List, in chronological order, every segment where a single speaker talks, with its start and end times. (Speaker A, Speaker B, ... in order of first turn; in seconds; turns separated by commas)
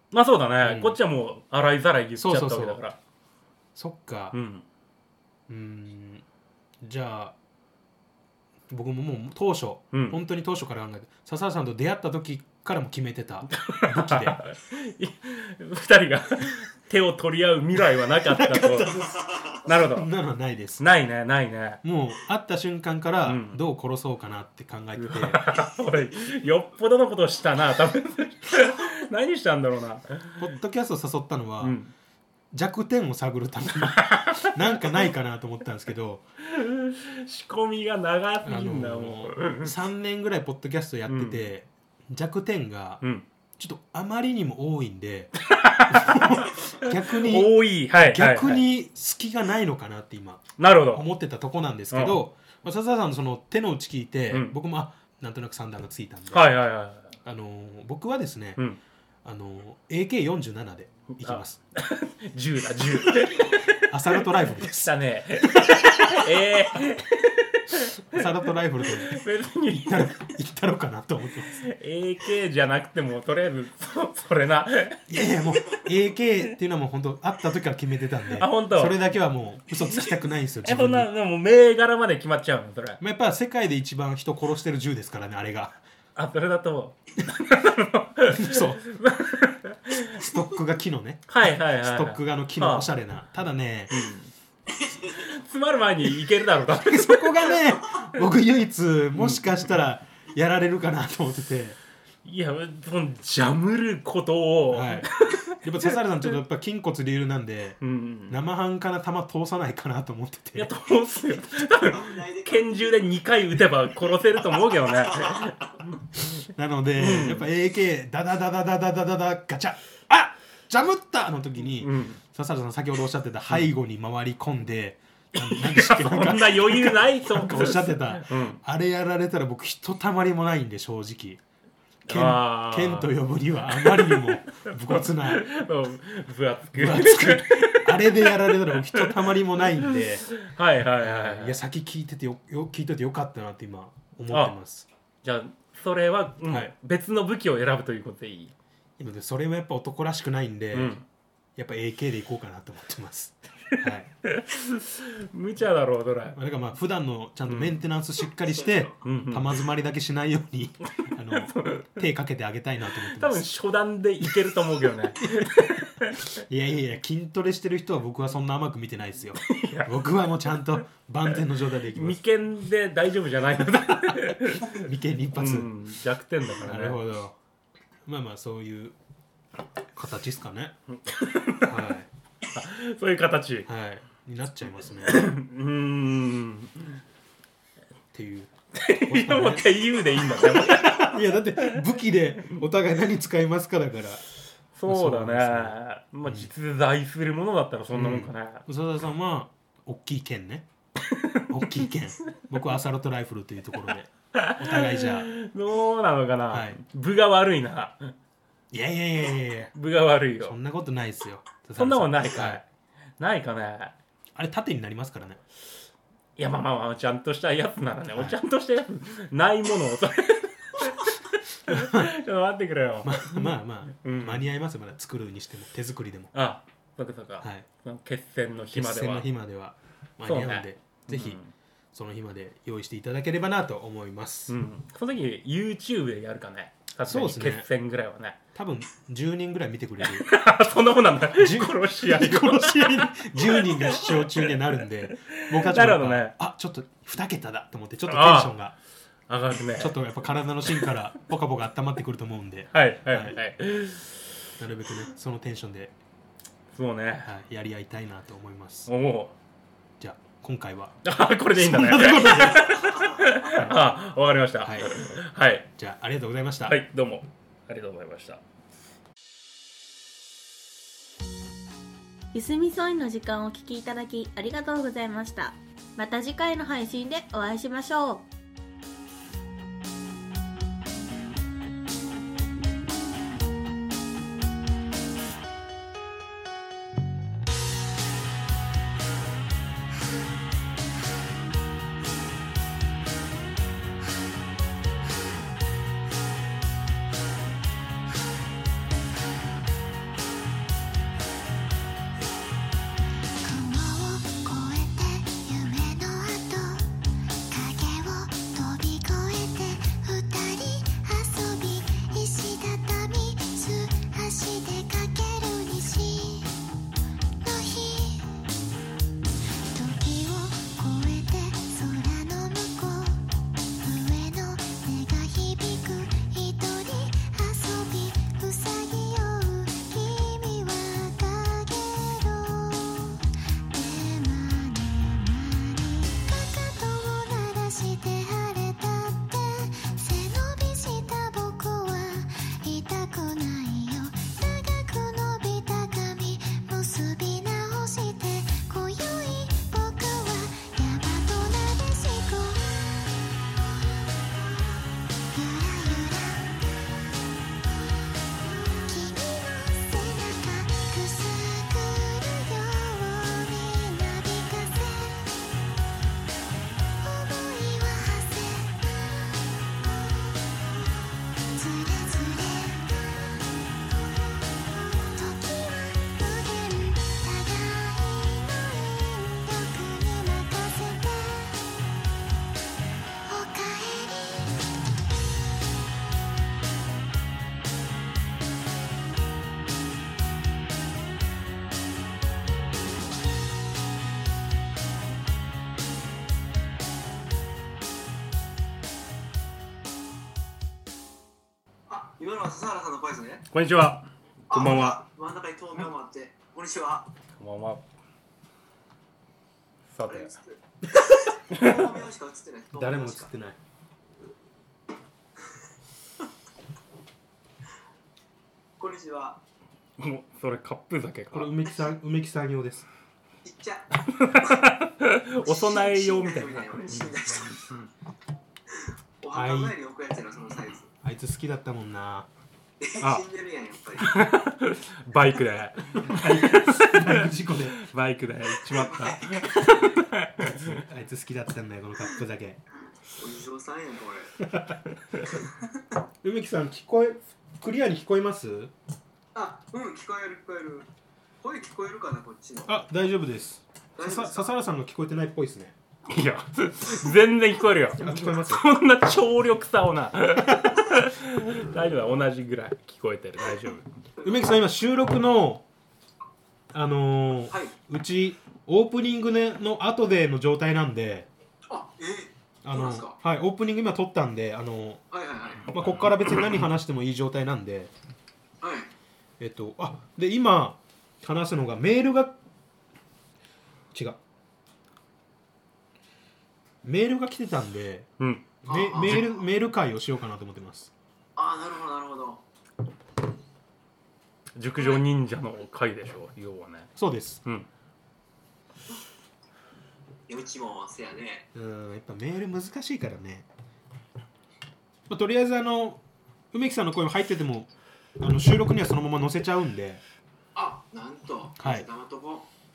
Speaker A: 0.1-3.0, Speaker B: 0.6-1.0, Speaker B: 2.2-2.8, Speaker B: 3.7-4.4, Speaker A: 4.3-4.6, Speaker B: 5.5-6.2, Speaker B: 6.8-7.3, Speaker B: 8.7-14.4, Speaker A: 9.9-10.2, Speaker A: 13.5-19.0, Speaker B: 18.3-19.1, Speaker A: 19.6-20.1, Speaker B: 19.7-20.8, Speaker A: 20.8-21.8, Speaker B: 21.8-25.4, Speaker A: 23.2-23.6, Speaker A: 25.0-30.5, Speaker B: 30.4-31.8, Speaker A: 31.6-31.9, Speaker B: 32.5-36.2, Speaker A: 34.0-34.8, Speaker A: 36.4-39.7, Speaker B: 38.4-43.0, Speaker A: 41.1-41.5, Speaker B: 43.6-45.3, Speaker A: 45.4-48.6, Speaker B: 45.9-56.5, Speaker A: 50.6-51.1, Speaker A: 51.9-52.2, Speaker A: 56.3-57.1, Speaker B: 57.2-58.6, Speaker B: 59.2-61.6, Speaker A: 61.2-70.1, Speaker B: 63.8-66.1, Speaker B: 68.1-69.2, Speaker B: 69.7-71.6, Speaker A: 71.5-75.0, Speaker B: 75.1-81.1, Speaker A: 78.3-79.0, Speaker A: 80.6-83.0, Speaker B: 83.0-85.8, Speaker A: 86.2-90.2, Speaker B: 88.3-88.8, Speaker B: 90.1-93.9, Speaker A: 91.3-92.9, Speaker A: 93.9-94.3, Speaker A: 95.0-97.6, Speaker B: 96.7-101.8, Speaker A: 99.2-99.6, Speaker A: 102.2-106.3, Speaker B: 104.7-110.7, Speaker A: 107.8-108.4, Speaker A: 110.5-115.9, Speaker C: 111.8-112.9, Speaker C: 115.1-115.5, Speaker B: 116.5-131.4, Speaker A: 117.0-117.5, Speaker A: 121.8-122.2, Speaker A: 125.4-128.6, Speaker A: 132.1-133.1, Speaker B: 132.1-135.5, Speaker A: 133.7-141.6, Speaker B: 136.7-140.3, Speaker B: 141.0-144.8, Speaker A: 144.3-144.6, Speaker A: 145.2-148.5, Speaker B: 149.0-151.0, Speaker A: 150.7-151.0, Speaker B: 151.6-154.1, Speaker A: 154.2-156.4, Speaker B: 156.3-163.4, Speaker A: 157.5-157.8, Speaker A: 159.0-159.6, Speaker A: 161.3-162.0, Speaker A: 163.0-166.3, Speaker B: 166.3-172.2, Speaker A: 169.4-170.8, Speaker A: 171.9-177.0, Speaker B: 173.9-175.7, Speaker B: 176.6-177.3, Speaker B: 178.1-178.9, Speaker B: 179.9-180.7, Speaker A: 180.9-181.8, Speaker B: 181.6-182.1, Speaker A: 182.5-183.7, Speaker B: 183.7-185.4, Speaker A: 185.0-187.0, Speaker B: 188.1-189.7, Speaker A: 188.7-191.8, Speaker B: 190.6-194.2, Speaker A: 194.8-198.6, Speaker B: 194.9-196.5, Speaker B: 197.9-200.7, Speaker A: 201.1-201.9, Speaker B: 201.5-205.3, Speaker A: 204.3-208.1, Speaker B: 206.5-206.8, Speaker B: 208.7-209.7, Speaker A: 209.7-210.6, Speaker B: 210.4-212.6, Speaker A: 211.8-212.6, Speaker A: 213.2-213.9, Speaker B: 214.3-215.4, Speaker A: 216.4-224.5, Speaker B: 218.1-218.4, Speaker B: 221.7-222.1, Speaker B: 223.0-226.3, Speaker A: 226.3-229.3, Speaker B: 227.4-227.7, Speaker B: 228.7-231.4, Speaker A: 230.2-231.5, Speaker B: 231.9-234.6, Speaker A: 234.5-238.4, Speaker B: 237.0-237.7, Speaker B: 238.5-240.3, Speaker A: 240.0-246.3, Speaker B: 241.3-248.8, Speaker A: 248.1-248.5, Speaker A: 249.3-249.9, Speaker B: 249.8-253.3, Speaker A: 252.7-254.2, Speaker B: 254.6-255.9, Speaker A: 256.7-257.3, Speaker B: 257.2-258.9, Speaker A: 258.9-259.3, Speaker B: 260.0-261.0, Speaker A: 261.0-265.7, Speaker B: 261.5-263.0, Speaker B: 264.6-265.1, Speaker B: 265.8-266.8, Speaker A: 266.7-268.4, Speaker D: 272.3-278.3, Speaker E: 303.4-306.9, Speaker E: 307.5-316.5, Speaker E: 317.4-318.4, Speaker E: 319.7-323.2, Speaker E: 323.8-353.0, Speaker E: 355.3-356.6, Speaker E: 358.8-365.3, Speaker E: 367.0-368.9, Speaker E: 371.5-373.5, Speaker E: 375.0-381.7, Speaker E: 383.2-384.6, Speaker C: 401.9-403.5, Speaker A: 403.5-405.0, Speaker C: 404.5-407.1, Speaker A: 407.4-407.8, Speaker A: 409.9-410.3, Speaker C: 410.0-413.3, Speaker A: 411.5-411.8, Speaker B: 412.7-413.6, Speaker C: 418.8-419.4, Speaker A: 420.0-421.5, Speaker B: 421.3-422.9, Speaker C: 423.4-424.6, Speaker A: 424.3-427.9, Speaker C: 425.4-427.7, Speaker C: 428.8-430.9, Speaker B: 429.3-429.8, Speaker B: 431.0-432.3, Speaker C: 432.8-434.4, Speaker A: 433.0-433.2, Speaker A: 434.0-440.8, Speaker B: 436.0-437.8, Speaker C: 438.6-439.9, Speaker B: 440.6-442.6, Speaker C: 443.2-444.4, Speaker B: 444.5-444.8, Speaker C: 445.3-445.7, Speaker B: 446.2-448.7, Speaker C: 449.3-450.9, Speaker C: 451.4-452.8, Speaker B: 452.7-455.7, Speaker C: 454.0-454.5, Speaker A: 456.1-463.8, Speaker B: 458.0-458.6, Speaker B: 464.2-465.6, Speaker B: 466.7-471.3, Speaker C: 467.5-467.7, Speaker C: 471.7-473.2, Speaker B: 472.6-475.0, Speaker C: 475.1-475.7, Speaker B: 475.7-477.9, Speaker C: 478.6-478.9, Speaker B: 479.4-482.4, Speaker B: 483.9-484.2, Speaker B: 486.8-488.1, Speaker A: 488.2-489.2, Speaker B: 488.6-490.9, Speaker C: 488.7-489.3, Speaker C: 491.4-492.4, Speaker A: 494.6-497.7, Speaker C: 494.8-495.0, Speaker B: 497.0-497.4, Speaker C: 500.3-501.5, Speaker B: 501.5-503.4, Speaker B: 505.1-506.0, Speaker B: 506.5-510.0, Speaker C: 510.5-512.5, Speaker B: 511.6-511.9